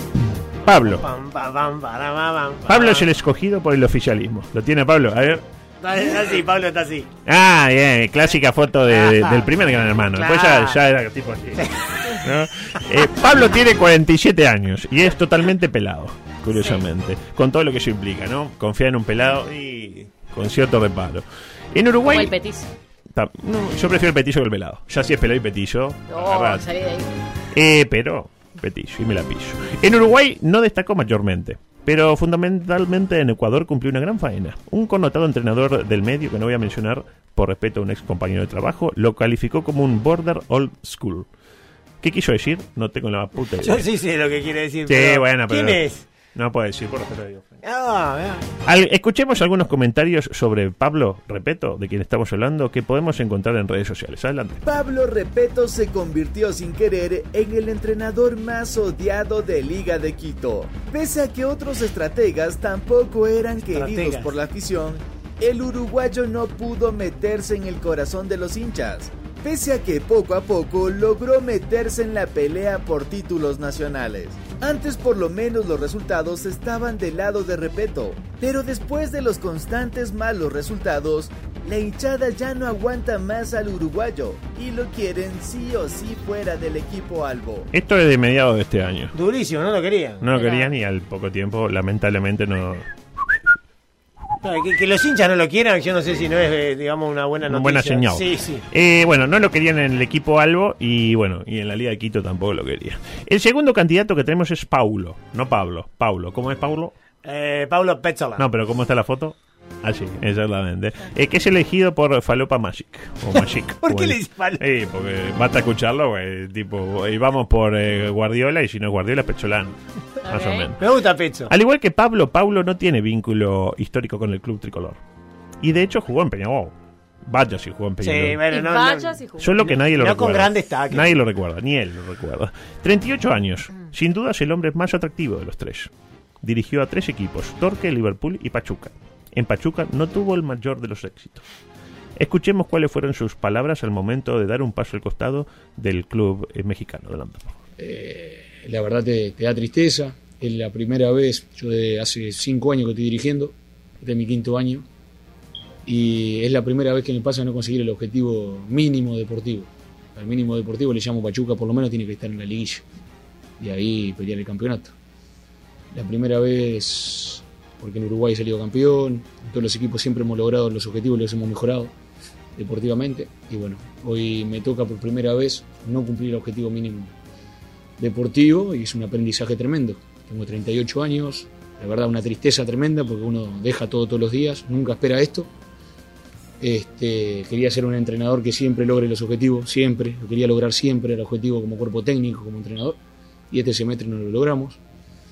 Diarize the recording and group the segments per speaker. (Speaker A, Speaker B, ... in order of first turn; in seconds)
Speaker A: 0.6-1.1, 2.7-5.4, 7.3-22.3, 23.1-26.7, 27.5-41.3, 42.0-43.9, 44.9-47.6, 48.6-54.6, 87.7-89.1, 90.2-93.3, 97.5-107.0, 108.4-120.8, 121.5-125.0, 125.6-126.7, 127.3-128.4, 129.4-135.9, 136.4-141.4, 142.2-147.6
Speaker B: 0.8-3.1, 5.8-7.1, 8.9-9.5, 10.1-10.8, 11.6-12.3, 43.6-46.0, 47.6-48.5, 63.7-64.3, 89.1-90.2, 94.4-98.6, 107.2-108.5, 113.8-114.6, 120.8-121.5, 128.0-131.1
Speaker C: 16.5-16.8, 22.1-22.7, 26.1-27.1, 90.3-90.7, 120.2-120.7, 128.5-129.5
Speaker D: 54.6-87.7
Speaker E: 147.8-154.9, 155.8-162.8, 163.6-164.9, 165.9-171.9, 172.6-177.1, 178.0-185.5, 186.6-193.0, 193.5-194.8